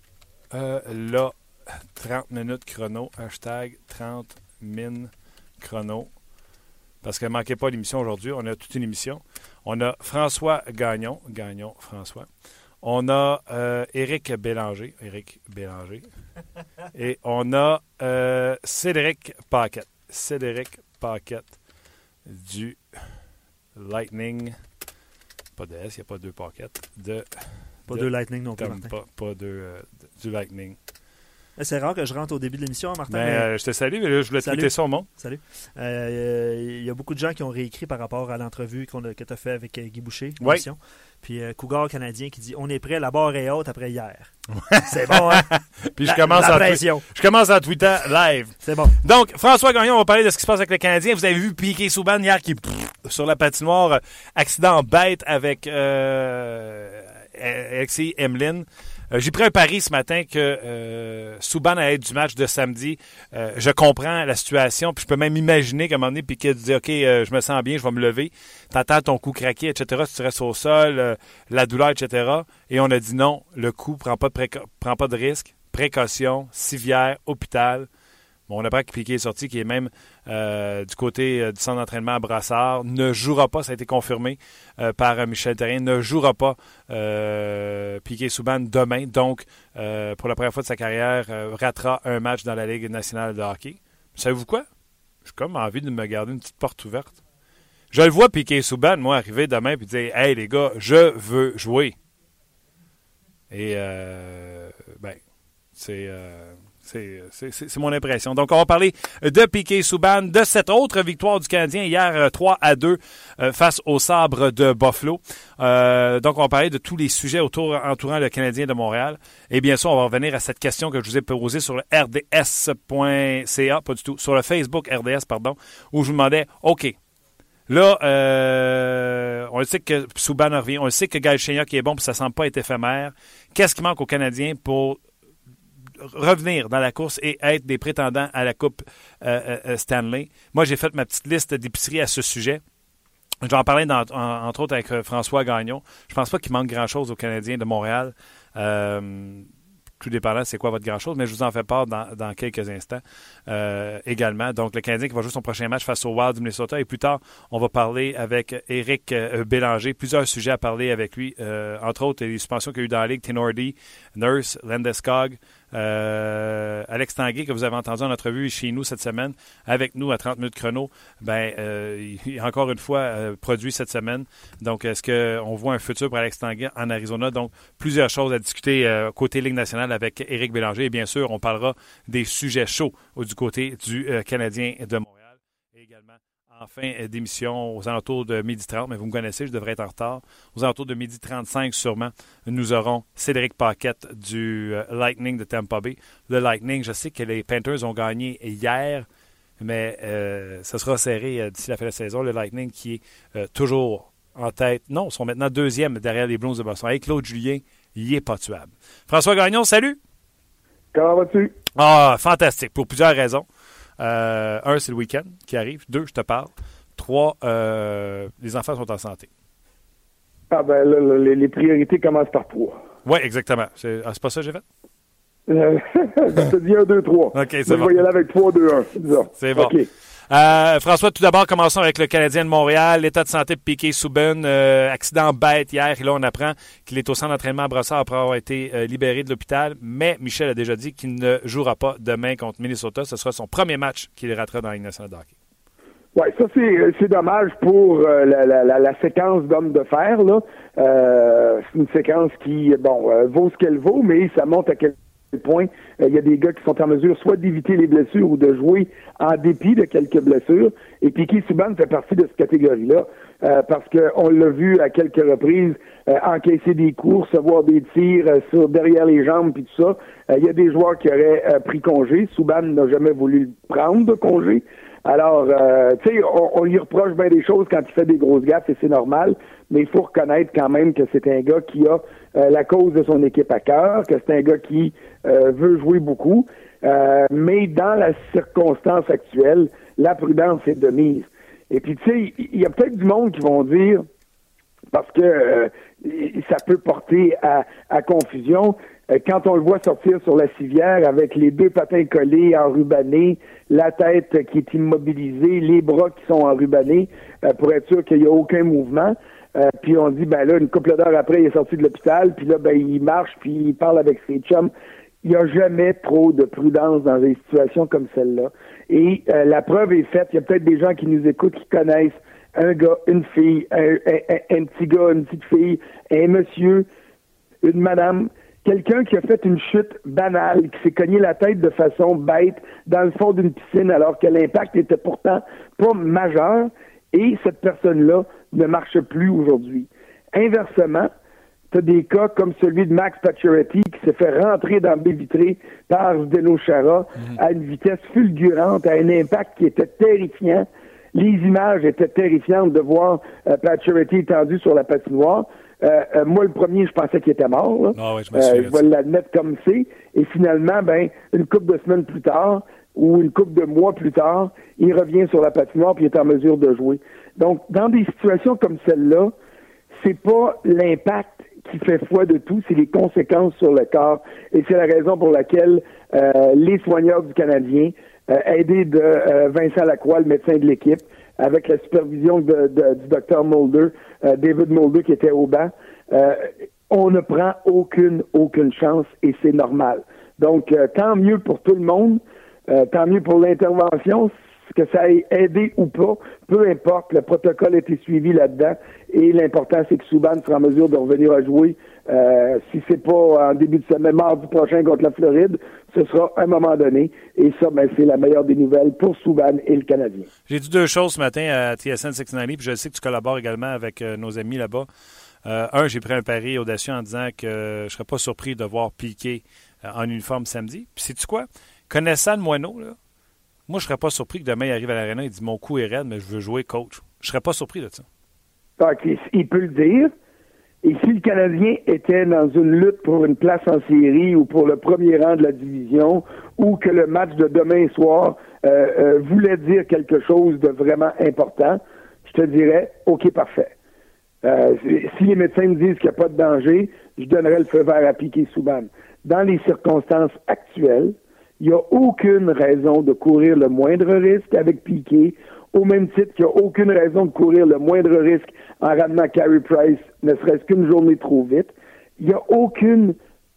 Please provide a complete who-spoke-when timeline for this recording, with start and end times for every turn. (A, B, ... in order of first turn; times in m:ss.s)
0:00.5-0:06.1 A
0:07.0-0:12.3 A
0:12.8-0:16.0 A
0:16.9-0:21.5 A
0:22.2-0:23.2 A
0:23.7-0:24.6 A
0:25.6-0:30.8 A
0:27.9-0:28.9 B
0:31.6-0:33.5 B
0:33.1-0:35.1 A
0:34.4-0:47.0 B
0:44.7-1:17.9 A
0:48.6-0:49.0 B
1:18.5-1:34.7 A
1:35.2-1:37.2 A
1:37.9-1:42.0 A
1:43.5-1:45.2 A
1:45.8-2:07.0 A
2:07.7-2:15.0 A
2:16.0-2:22.6 A
2:23.4-2:29.5 A
2:30.0-3:19.1 A
3:19.6-3:30.0 A
3:30.9-3:31.5 C
3:31.7-3:33.4 A
3:34.0-3:39.3 A
3:40.5-3:42.8 C
3:43.0-3:44.6 A
3:45.5-3:49.9 C
3:47.3-3:48.0 A
3:49.4-3:49.7 A
3:50.3-4:05.3 A
4:06.1-4:54.0 C
4:54.9-5:14.7 C
5:15.2-5:26.9 C
5:27.6-5:41.1 C
5:41.7-6:09.3 C
5:57.9-5:58.8 A
6:10.0-6:50.3 C
6:50.5-6:54.9 A
6:55.4-7:03.0 A
7:03.7-7:08.0 A
7:08.8-7:10.1 C
7:10.8-7:23.7 C
7:24.4-7:43.2 C